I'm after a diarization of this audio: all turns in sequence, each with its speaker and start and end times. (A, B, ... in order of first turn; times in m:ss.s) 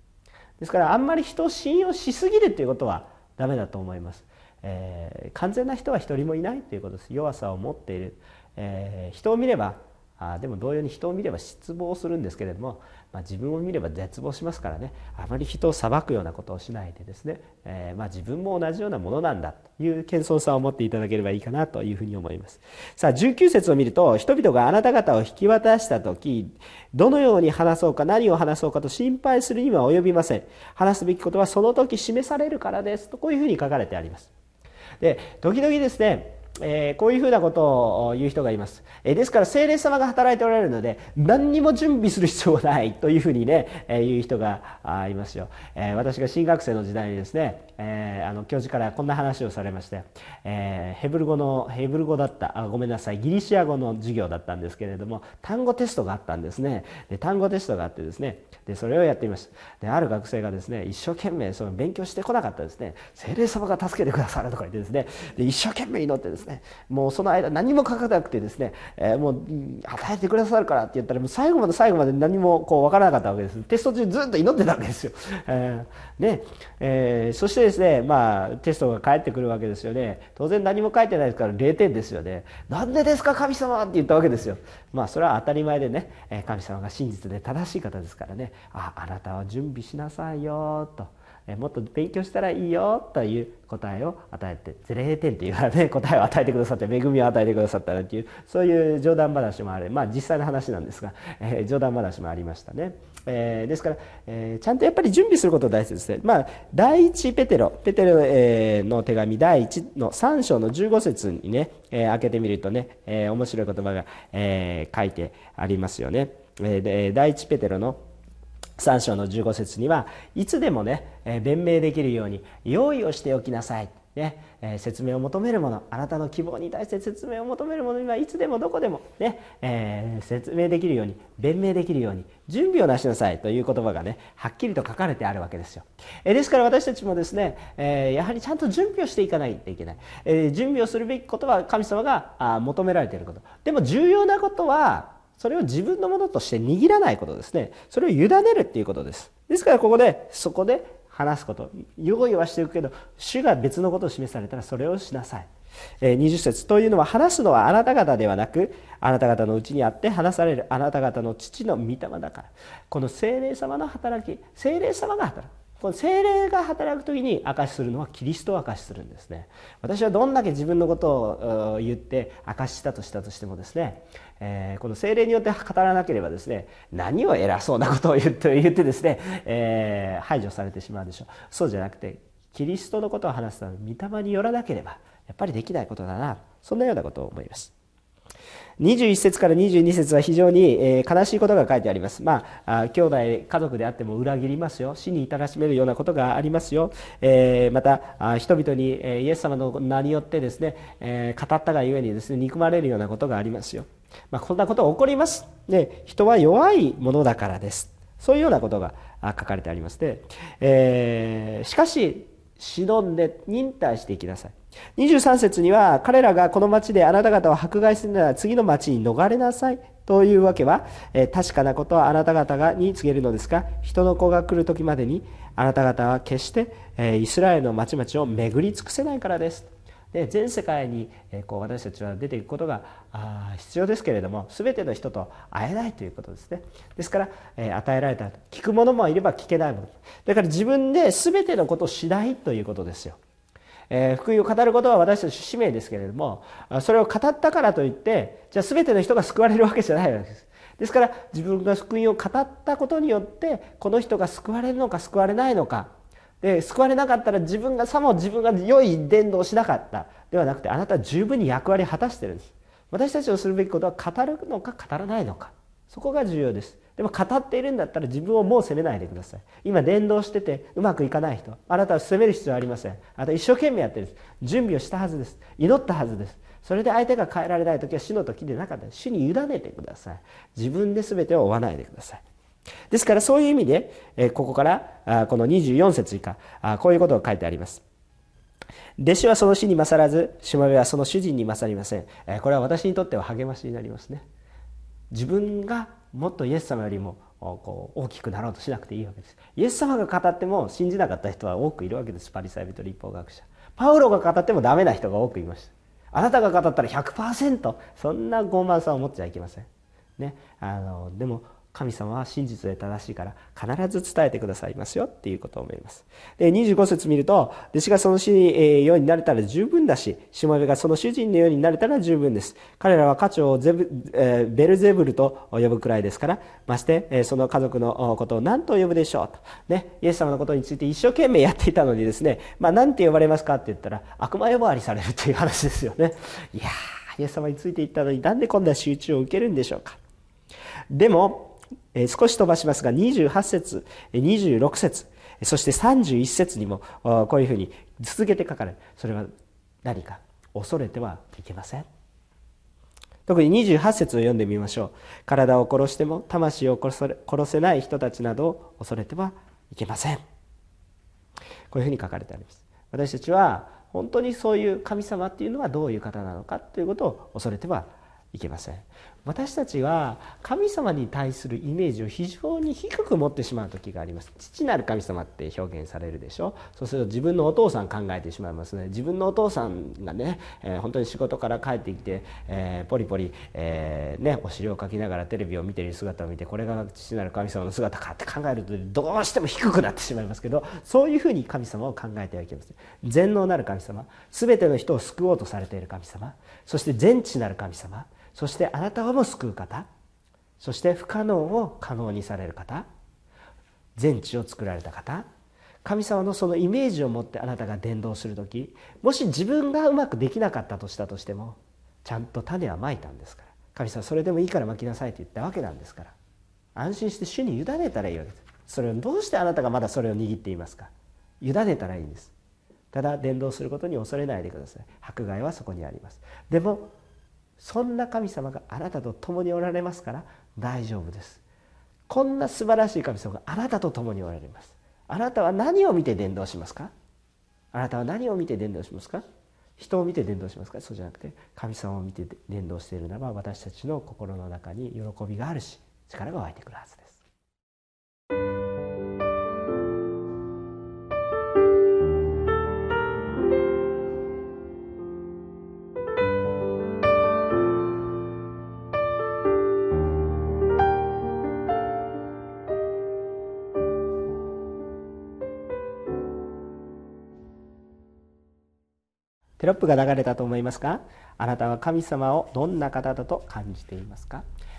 0:00.6-0:34.3 A
0:35.0-1:58.0 A
1:58.8-2:35.5 A
2:36.0-3:07.7 A
3:08.8-4:03.2 A
4:03.9-4:42.2 A
4:42.9-4:47.8 A
4:49.0-4:54.2 A
4:55.1-5:09.7 A
5:10.2-5:40.0 A
5:40.9-5:49.3 A
5:49.8-5:51.9 A
5:53.3-6:00.2 A
6:01.7-6:39.9 A
6:40.6-6:42.9 A
6:44.0-6:45.3 A
6:45.8-6:56.2 A
6:56.8-7:02.3 A
7:02.9-7:06.9 A
7:07.6-7:11.4 A
7:12.1-7:16.9 A
7:17.7-7:19.2 A
7:19.8-7:27.2 A
7:49.6-7:54.4 A